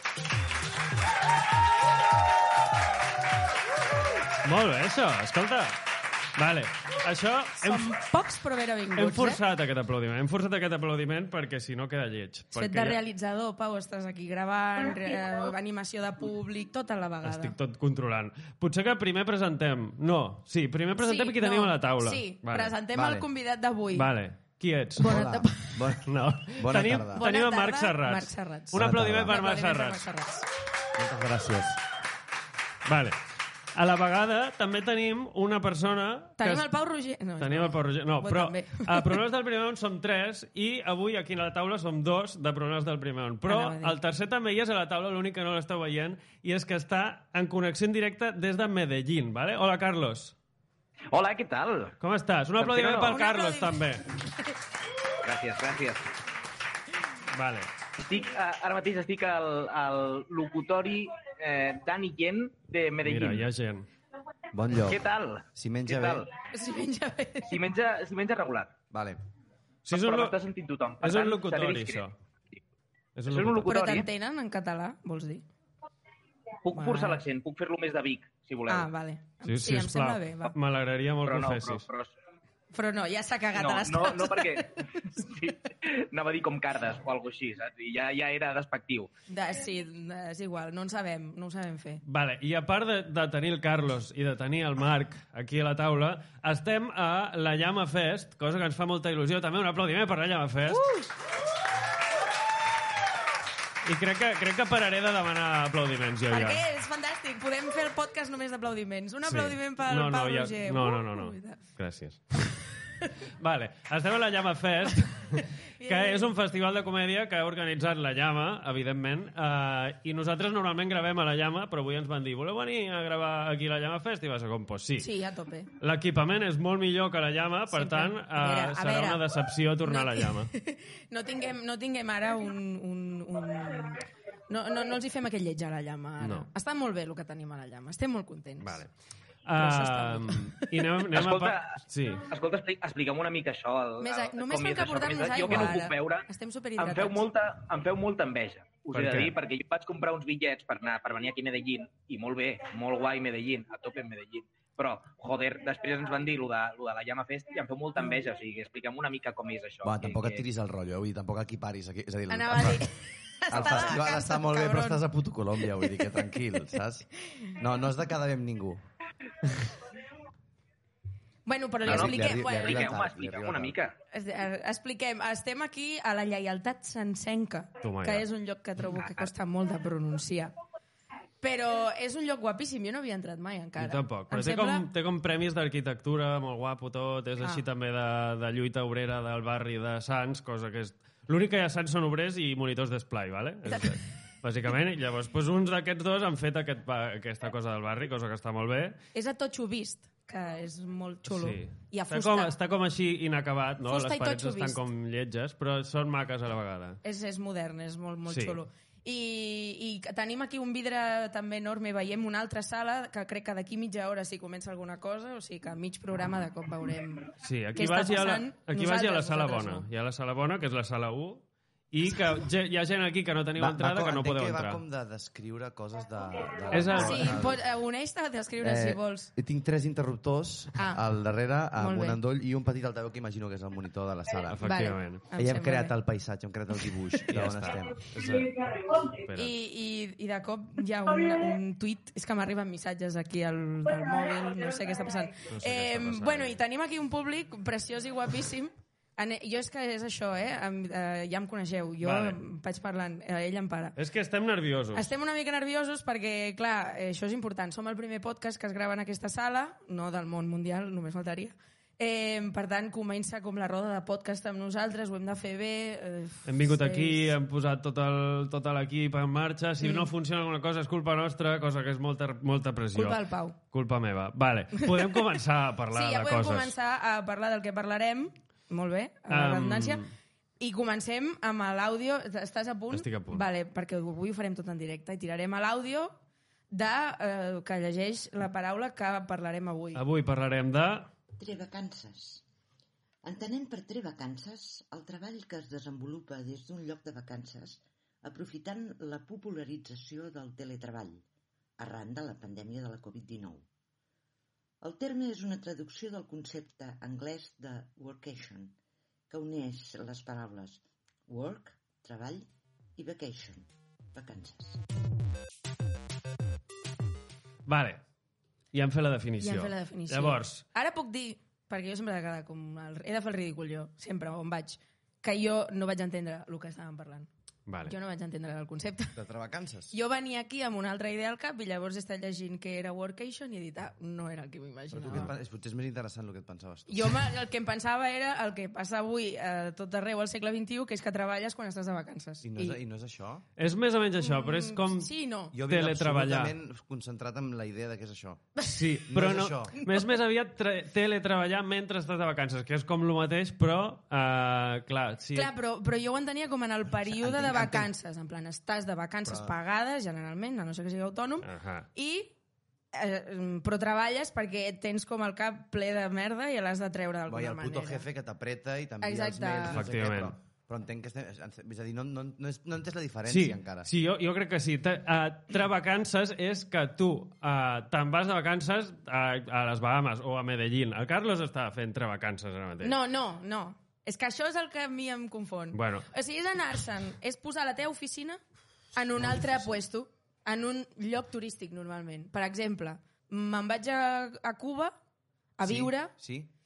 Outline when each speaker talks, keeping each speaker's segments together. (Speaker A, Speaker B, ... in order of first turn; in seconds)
Speaker A: 4.4-5.8, 6.4-8.0, 8.9-13.0, 17.2-22.7, 23.9-25.1, 26.0-30.1, 32.9-33.2, 33.7-36.7, 37.4-50.3, 52.0-54.1, 57.3-57.7, 63.0-63.9, 69.8-70.4, 71.0-72.1, 73.2-73.7, 79.4-81.8, 92.0-100.8, 103.8-106.6, 109.3-112.5, 113.4-125.1, 125.8-130.5, 136.2-136.5, 138.6-138.9, 139.4-142.3, 145.5-145.7, 148.9-149.4, 177.8-178.2, 183.8-199.0, 201.2-207.0, 208.3-208.6, 217.4-224.8, 226.7-227.4, 234.5-235.2, 237.3-238.6, 239.2-239.5, 245.5-246.6, 252.0-252.4, 254.0-255.1, 266.4-276.7, 279.3-280.1, 282.9-283.4, 289.9-291.1, 317.6-318.0, 318.7-320.6, 327.7-327.9, 343.6-345.1, 345.6-346.5, 348.7-355.5, 361.4-361.9, 369.7-370.3, 373.3-383.0, 385.7-386.1
Speaker B: 7.6-9.4, 12.5-17.5, 20.9-24.1, 25.0-25.9, 27.2-30.5, 36.4-39.2, 43.5-43.9, 53.1-53.8, 66.5-67.6, 73.7-75.4, 76.7-77.2, 78.7-80.5, 82.7-85.0, 89.3-92.0, 100.7-101.1, 106.3-111.6, 115.8-116.3, 125.0-125.7, 127.7-129.2, 129.8-138.8, 139.6-140.8, 144.0-147.3, 162.3-165.0, 171.4-172.9, 174.1-180.5, 181.4-184.9, 199.1-202.5, 203.9-204.8, 207.0-219.8, 226.9-229.3, 230.8-231.0, 231.8-232.2, 234.6-235.9, 239.3-253.9, 254.9-267.4, 269.8-270.1, 272.9-273.6, 274.8-275.2, 275.9-280.0, 280.6-286.2, 286.7-290.0, 319.4-327.3, 327.9-329.2, 329.9-335.3, 336.9-342.8, 344.2-345.6, 348.6-348.8, 349.8-350.1, 355.3-362.3, 362.9-368.1, 369.0-369.8, 382.8-388.4, 388.9-394.9, 395.6-396.1
Speaker C: 22.9-23.2, 25.0-27.2, 28.7-29.4, 30.9-31.8, 64.5-65.0, 65.5-66.3, 68.9-69.2, 159.8-162.8, 163.5-168.8, 171.8-173.8, 223.6-227.7, 228.6-234.7, 235.3-238.1, 329.1-329.9, 334.9-337.3, 342.4-343.4, 345.5-348.5, 349.1-349.8, 356.9-357.9, 359.2-359.5, 367.3-373.9, 389.1-389.8, 395.6-396.5
Speaker D: 51.1-51.9, 52.6-53.2, 55.2-56.0, 58.0-63.4, 64.8-66.3, 67.5-68.7, 69.9-72.0, 73.3-74.1, 76.6-78.9, 81.2-82.1, 83.6-89.1, 141.1-146.3, 146.8-160.4, 171.8-173.9
Speaker E: 291.4-292.4, 293.2-301.2, 301.8-303.6, 304.8-308.8, 309.3-314.8